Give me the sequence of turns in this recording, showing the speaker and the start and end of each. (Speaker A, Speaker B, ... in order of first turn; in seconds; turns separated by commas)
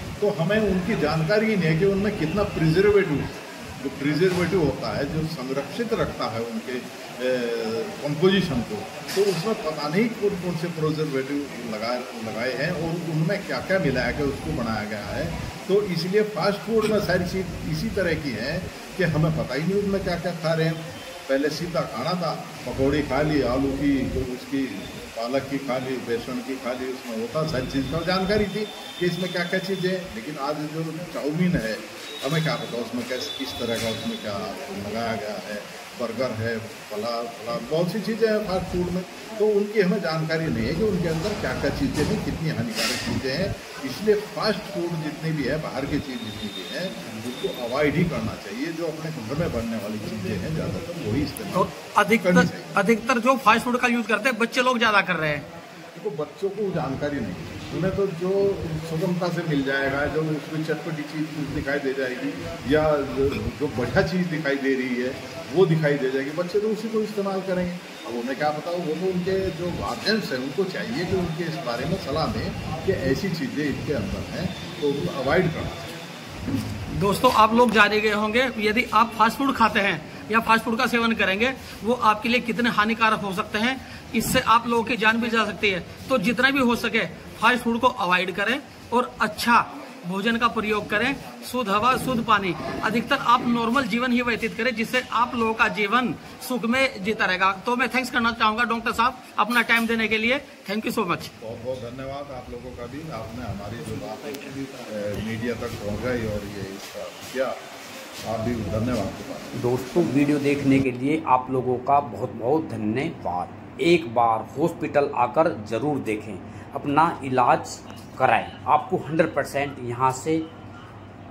Speaker A: 0.2-52.7, Speaker B: 51.5-55.5, Speaker A: 56.0-76.0, Speaker B: 77.0-101.3, Speaker A: 101.4-107.6, Speaker A: 108.2-109.5, Speaker C: 109.5-120.5